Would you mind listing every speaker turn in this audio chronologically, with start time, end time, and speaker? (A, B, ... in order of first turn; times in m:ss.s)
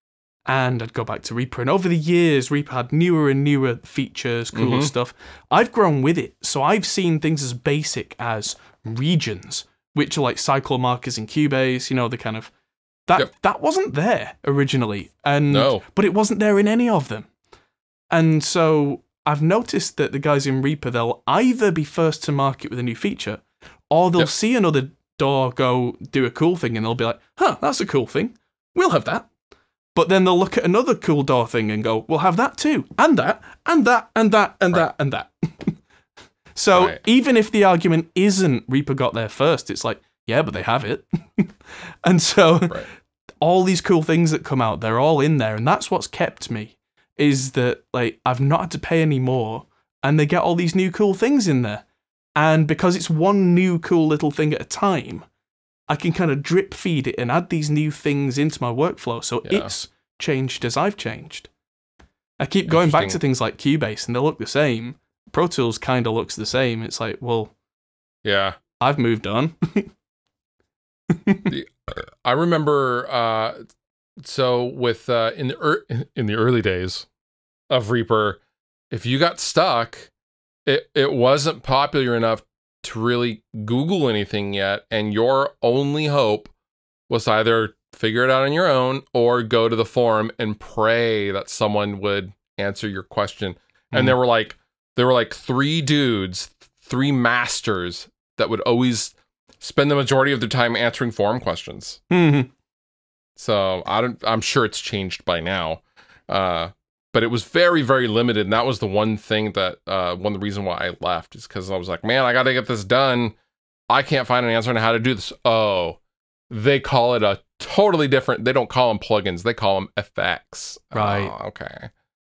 0:00.5-0:12.5 A
0:04.6-0:04.9 B
0:13.1-0:17.3 A
0:15.5-0:15.8 B
0:18.1-0:29.3 A
0:30.0-0:35.8 A
0:36.6-0:42.8 A
0:36.7-0:37.0 B
0:43.4-0:51.8 A
0:52.4-0:55.2 A
0:55.9-1:01.5 A
0:59.4-0:59.7 B
1:02.4-1:07.5 A
1:02.7-1:03.2 B
1:08.2-1:08.6 B
1:08.8-1:09.9 A
1:11.1-1:11.5 A
1:11.5-1:13.6 B
1:14.2-1:17.1 B
1:17.7-1:18.4 B
1:18.9-1:20.1 B
1:20.7-1:26.5 B
1:27.1-1:42.0 B
1:42.1-1:42.5 A
1:43.4-1:53.4 B
1:53.9-1:56.0 B
1:56.5-2:01.9 B
2:00.9-2:01.3 A